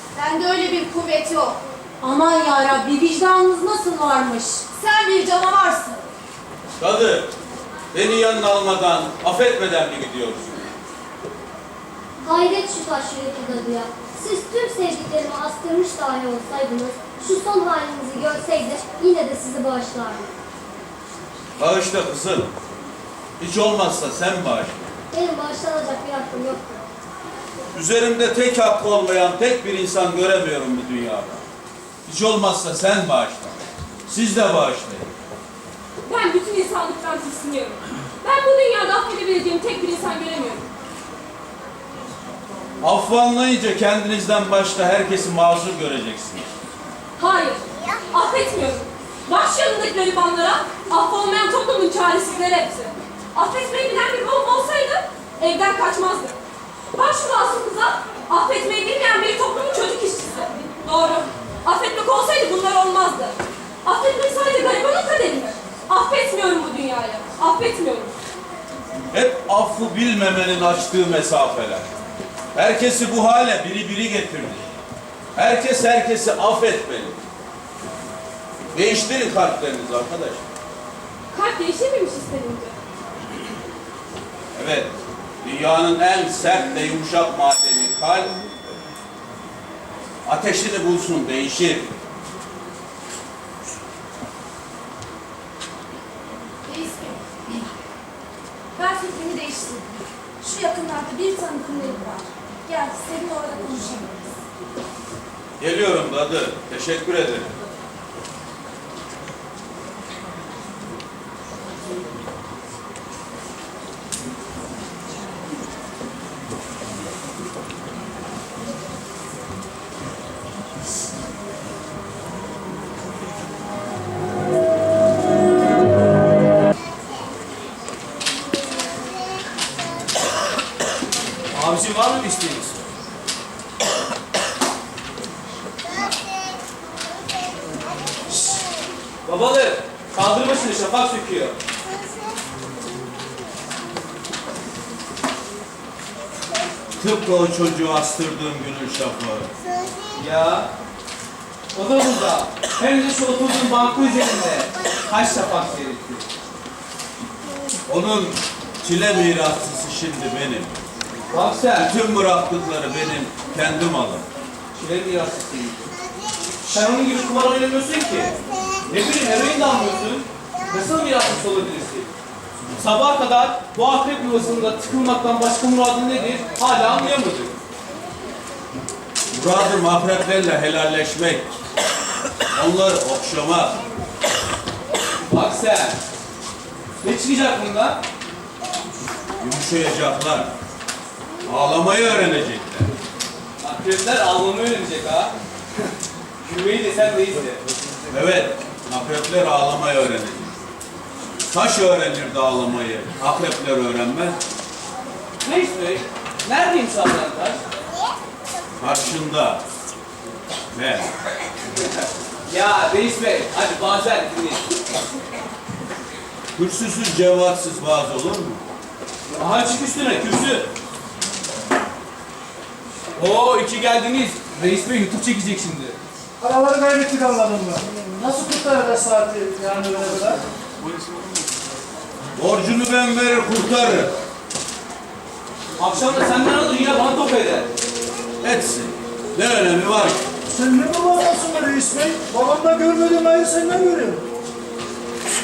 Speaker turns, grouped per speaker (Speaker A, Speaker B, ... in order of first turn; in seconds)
Speaker A: 0.1-6.0, 96.7-97.7, 98.8-104.3
Speaker B: 6.8-7.3, 7.9-10.7, 21.6-22.5, 23.4-24.9, 27.7-31.4, 32.0-35.1, 42.8-46.5, 69.1-71.9, 72.5-74.7, 75.3-77.2, 78.7-80.4, 84.5-84.9, 85.4-88.3, 90.2-91.9, 105.6-107.5, 147.0-149.5, 157.9-160.8, 161.8-164.2, 179.3-181.5, 182.5-183.8, 189.4-190.5, 191.4-192.9, 198.1-200.6, 201.5-204.3, 208.8-209.6, 210.7-211.1, 216.6-218.6, 232.4-234.1, 238.4-240.2
Speaker C: 12.2-20.3, 25.1-26.8
Speaker D: 36.0-40.6, 47.2-56.4, 57.0-68.1, 81.3-82.7
Speaker E: 131.5-132.8, 139.2-141.5, 150.1-150.7, 151.7-156.2, 161.3-161.9, 164.8-165.8, 166.7-168.3, 168.9-172.1, 172.8-177.5, 185.2-186.0, 187.0-188.0, 193.6-195.3, 196.4-197.6, 205.4-207.6, 212.5-214.7, 219.3-220.7, 223.2-226.0, 235.8-237.7
Speaker F: 226.4-230.4, 240.5-244.2